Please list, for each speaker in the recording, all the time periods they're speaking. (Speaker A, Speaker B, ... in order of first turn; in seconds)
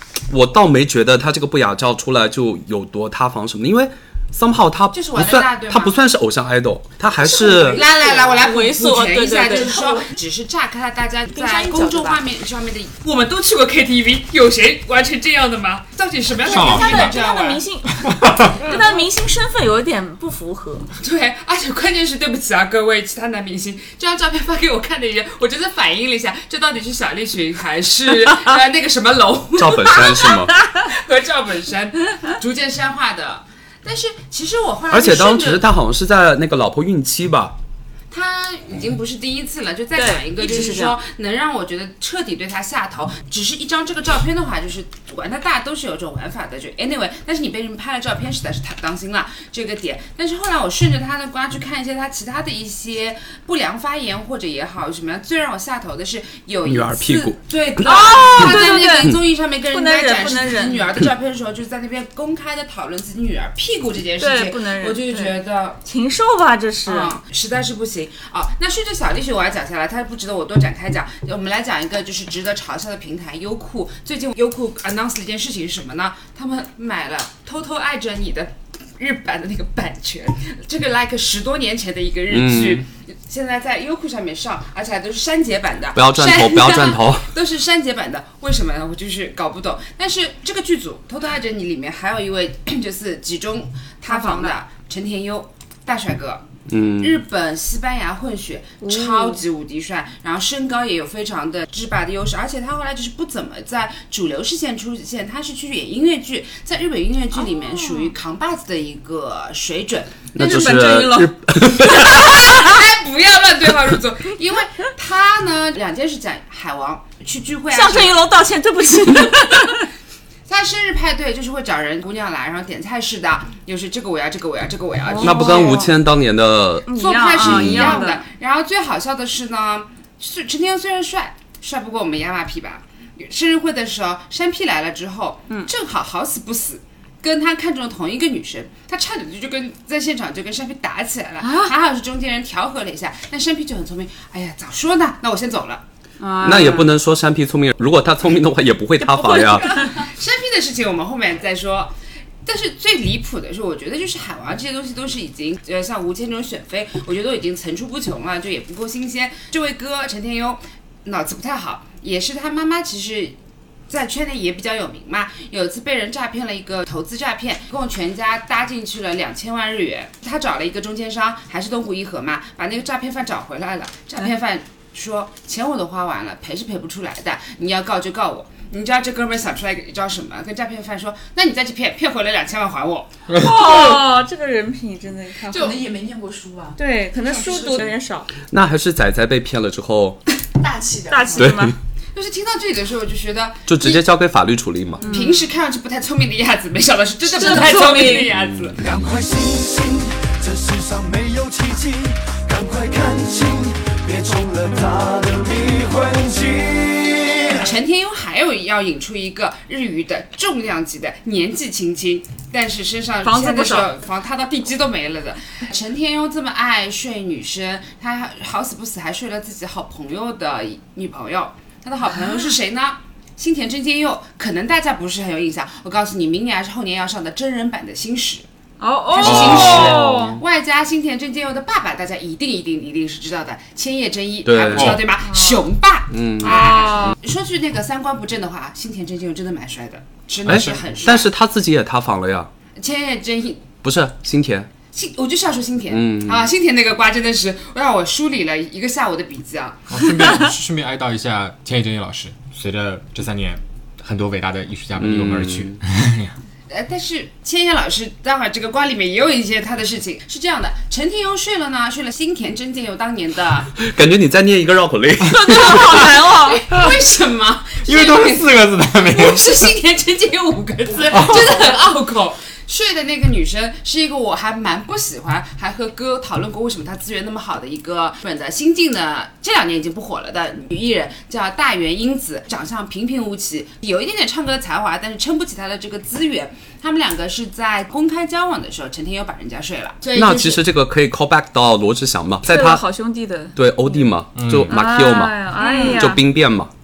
Speaker A: 0.3-7.8, 29.6-30.6, 34.9-37.5, 56.6-57.9, 82.3-82.8, 86.0-87.3, 96.7-97.2, 110.3-112.7, 125.2-128.0, 146.4-149.8, 188.5-190.2, 191.4-191.8, 193.7-195.1, 234.4-235.0, 236.1-236.7, 240.5-242.5, 243.8-244.7, 245.9-246.5, 255.0-255.8, 263.8-266.1, 290.1-292.9, 293.6-296.7
Speaker B: 4.9-6.0, 7.6-17.6, 18.6-19.0, 21.0-35.6, 38.1-65.8, 66.8-96.5, 97.0-110.7, 111.9-118.2, 120.5-125.9, 126.9-145.8, 149.8-151.9, 152.4-163.4, 163.9-183.6, 192.1-194.0, 195.1-198.8, 207.6-228.5, 229.1-241.3, 242.8-243.7, 244.9-249.9, 256.7-263.8, 265.7-268.5, 269.1-290.6, 295.6-296.1
Speaker C: 7.2-8.5, 9.5-10.1, 11.3-12.2, 185.5-187.9, 190.6-191.6
Speaker D: 8.2-9.8, 16.4-20.9, 40.0-41.0, 57.8-60.9, 64.2-67.2, 94.1-94.6, 98.8-99.4, 107.3-108.1, 110.4-112.1, 117.7-119.9, 125.0-126.0, 126.9-128.2, 141.4-141.7, 146.2-146.9, 149.0-150.0, 183.4-185.8, 186.8-188.3, 191.1-191.8, 195.0-195.5, 197.3-198.3, 213.2-213.9, 228.8-230.4, 235.2-235.7, 236.4-237.2, 265.2-266.6, 292.5-294.0, 294.7-296.2
Speaker E: 16.4-17.2, 18.0-18.6, 183.3-183.6, 229.2-230.1, 234.7-235.1, 240.4-240.8, 249.9-256.4, 267.8-269.7, 271.1-271.6, 294.4-294.7
Speaker F: 198.8-207.7